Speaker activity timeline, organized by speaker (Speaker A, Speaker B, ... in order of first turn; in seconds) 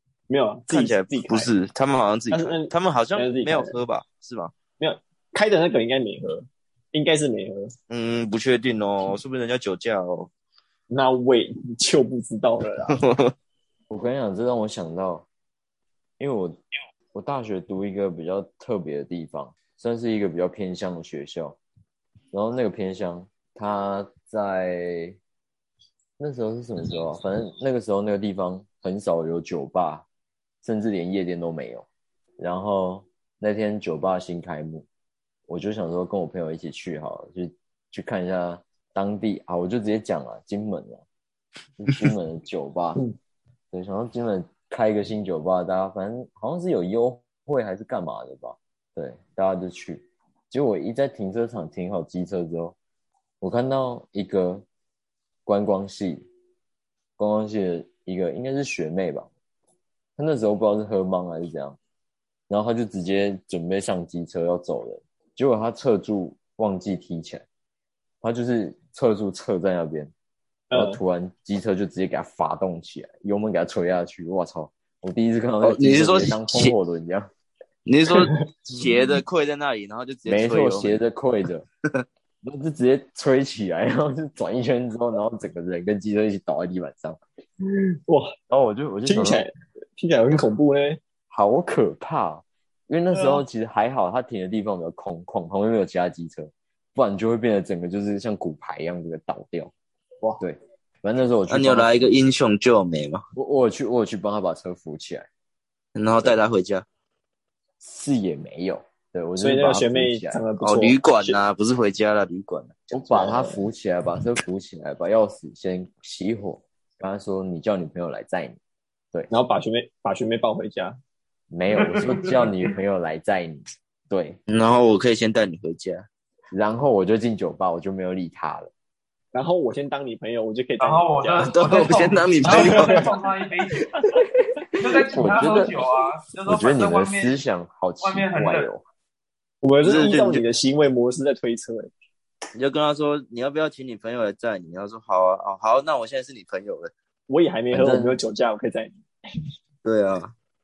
Speaker A: 0.3-1.5, 2.3-3.8, 4.8-7.7, 10.9-13.0, 70.7-71.0, 78.1-78.4, 87.7-88.3, 89.1-91.0, 93.1-93.4, 109.4-111.4, 113.0-113.6, 119.3-121.0, 129.3-131.5, 132.4-133.1, 139.6-141.9, 147.3-148.9
Speaker B: 0.7-4.5, 7.9-10.3, 12.9-13.3, 75.6-76.8, 77.9-81.0, 101.5-103.2, 106.0-106.8, 110.6-112.9, 124.5-126.1, 131.4-133.2, 139.8-140.4, 142.6-146.9, 149.8-150.3
Speaker C: 13.9-15.3, 16.2-16.6, 17.1-21.6, 22.3-25.2, 26.2-30.1, 30.6-31.9, 32.4-34.9, 35.5-41.0, 41.8-43.0, 43.7-52.8, 53.4-54.6, 55.5-56.3, 57.2-59.3, 60.2-61.8, 62.5-67.5, 68.2-70.1, 70.7-77.3, 80.3-81.7, 82.4-87.2, 88.5-89.5, 91.3-99.7, 100.4-102.2, 103.4-105.3, 107.8-110.4, 112.9-118.6, 121.5-124.4, 126.5-128.7, 134.9-135.8, 136.4-138.8, 147.7-148.2
Speaker D: 121.8-122.5, 130.8-134.2, 134.8-137.4, 138.0-138.7